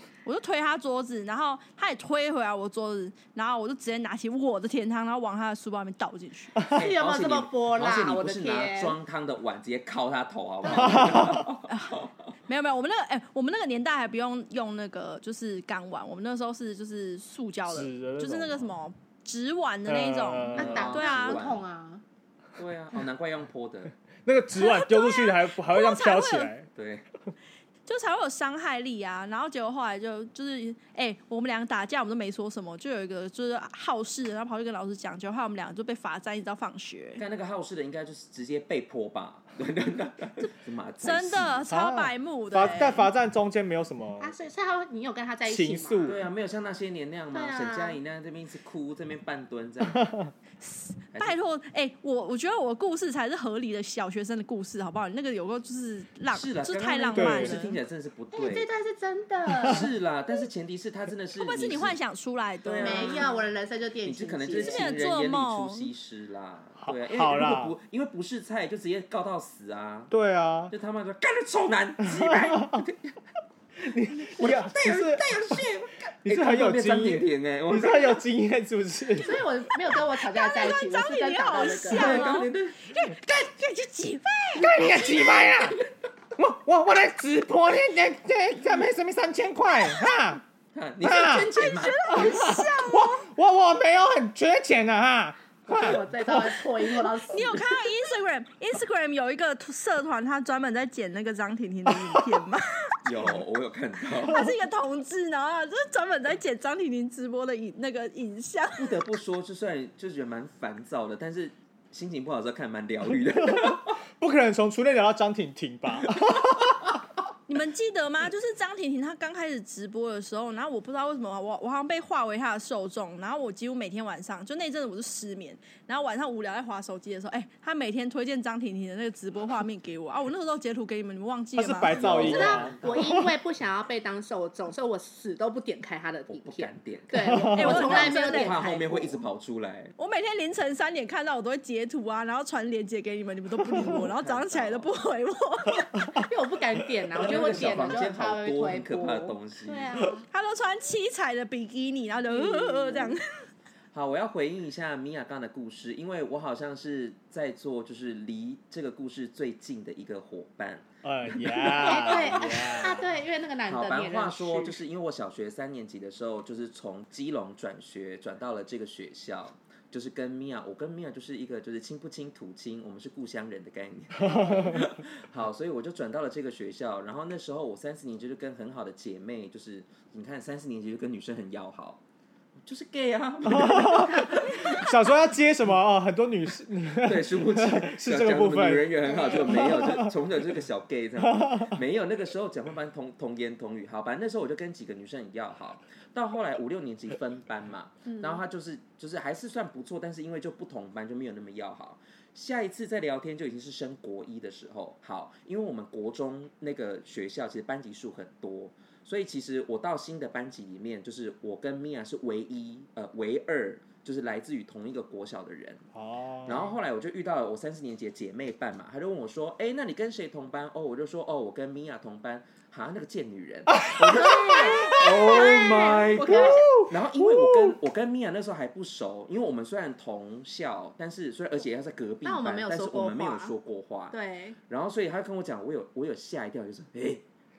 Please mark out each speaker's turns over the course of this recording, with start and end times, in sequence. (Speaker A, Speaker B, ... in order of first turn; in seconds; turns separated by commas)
Speaker A: 0.2-6.6, Speaker B: 6.7-8.9, Speaker C: 6.7-12.3, Speaker B: 10.7-11.2, Speaker D: 10.7-11.5, Speaker A: 11.7-21.4, Speaker D: 17.7-18.7, Speaker D: 19.9-20.9, Speaker C: 20.5-21.6, Speaker B: 20.6-22.0, Speaker C: 22.6-23.9, Speaker D: 24.2-26.6, Speaker A: 24.5-26.5, Speaker C: 26.7-27.1, Speaker A: 27.9-37.2, Speaker C: 37.2-41.7, Speaker A: 40.4-43.1, Speaker D: 41.7-44.3, Speaker B: 44.2-46.2, Speaker D: 45.5-46.2, Speaker C: 46.0-50.1, Speaker B: 47.3-48.0, Speaker D: 49.9-50.3, Speaker A: 50.6-57.8, Speaker C: 56.3-58.7, Speaker D: 57.1-57.6, Speaker B: 58.3-59.9, Speaker C: 59.6-62.0, Speaker A: 61.3-63.3, Speaker C: 62.6-63.4, Speaker B: 62.8-64.9, Speaker C: 64.0-70.1, Speaker A: 64.6-65.9, Speaker D: 66.8-67.7, Speaker D: 70.1-70.7, Speaker C: 70.7-73.2, Speaker D: 72.0-72.8, Speaker D: 73.8-75.6, Speaker C: 74.2-78.2, Speaker D: 76.2-79.4, Speaker B: 79.2-82.4, Speaker A: 80.2-85.0, Speaker C: 81.8-82.8, Speaker D: 84.6-85.8, Speaker D: 86.3-90.4, Speaker C: 90.7-92.6, Speaker D: 91.0-91.5, Speaker A: 91.6-93.2, Speaker D: 92.1-97.0, Speaker B: 95.7-97.8, Speaker A: 97.3-103.0, Speaker C: 103.0-104.5, Speaker A: 104.1-108.9, Speaker C: 108.8-114.0, Speaker D: 113.5-117.0, Speaker A: 117.5-132.6, Speaker D: 131.5-133.2, Speaker C: 131.8-133.3, Speaker B: 132.2-139.2, Speaker C: 136.3-139.9, Speaker D: 137.3-137.6, Speaker A: 137.5-138.6, Speaker A: 140.0-145.9, Speaker C: 143.7-144.9, Speaker D: 145.9-146.2, Speaker B: 146.1-150.2, Speaker C: 147.1-150.0, Speaker A: 150.3-153.4, Speaker B: 152.3-153.2, Speaker C: 153.9-163.0, Speaker D: 161.0-163.0, Speaker B: 161.8-164.8, Speaker C: 163.7-182.0, Speaker D: 174.2-174.9, Speaker C: 182.6-184.9, Speaker D: 183.4-190.1, Speaker C: 187.0-215.8, Speaker B: 189.0-189.7, Speaker D: 191.2-191.8, Speaker B: 198.1-198.4, Speaker D: 215.9-216.7, Speaker C: 216.4-237.2, Speaker D: 223.7-225.1, Speaker B: 224.1-226.7, Speaker D: 226.2-227.8, Speaker B: 232.2-233.5, Speaker B: 234.1-234.6